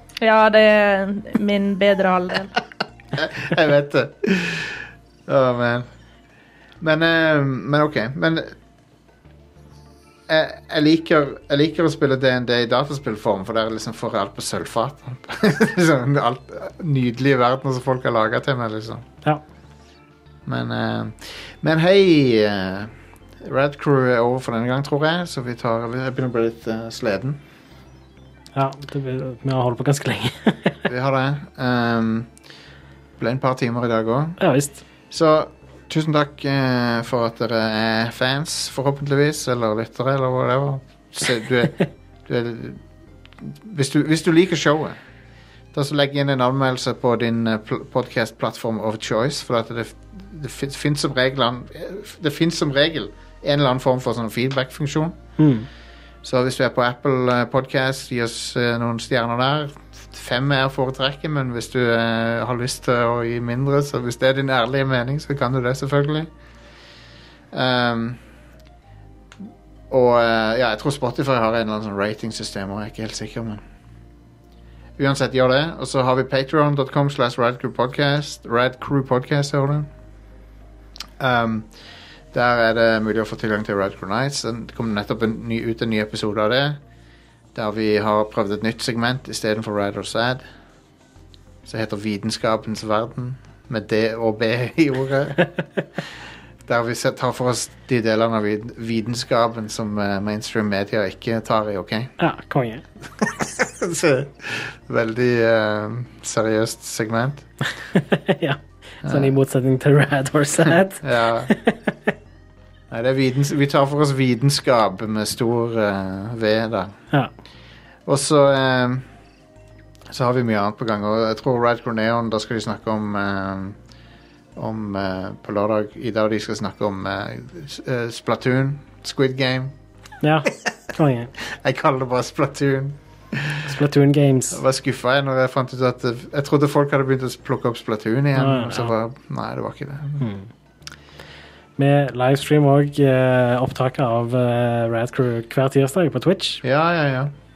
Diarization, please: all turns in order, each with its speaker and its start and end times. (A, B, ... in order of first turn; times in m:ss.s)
0:00.2-0:02.5 A
0:03.2-0:05.8 B
0:06.8-0:08.5 B
0:10.3-0:19.0 B
0:20.4-0:27.4 B
0:28.5-0:30.8 C
0:30.9-0:32.3 B
0:33.2-0:34.4 B
0:34.4-0:34.8 C
0:35.1-0:42.8 B
0:43.4-0:45.0 B
0:45.7-0:55.2 B
0:55.4-0:55.7 C
0:56.2-1:06.3 B
1:07.5-1:08.2 B
1:09.9-1:13.6 B
1:15.0-1:19.9 B
1:21.2-1:21.7 B
1:22.3-1:26.8 B
1:27.5-1:30.4 B
1:31.6-1:35.5 B
1:36.6-1:42.1 B
1:42.2-1:42.8 C
1:43.2-1:47.4 B
1:47.9-1:52.1 C
1:49.0-1:49.3 B
1:50.6-1:51.5 B
1:52.9-1:56.9 B
1:58.0-1:59.1 B
2:00.1-2:03.8 B
2:04.6-2:09.7 B
2:10.2-2:11.3 C
2:10.5-2:10.7 B
2:11.4-2:13.8 B
2:13.6-2:14.6 C
2:14.5-2:20.2 B
2:18.3-2:18.9 C
2:20.2-2:20.5 C
2:21.8-2:26.6 C
2:26.6-2:27.3 B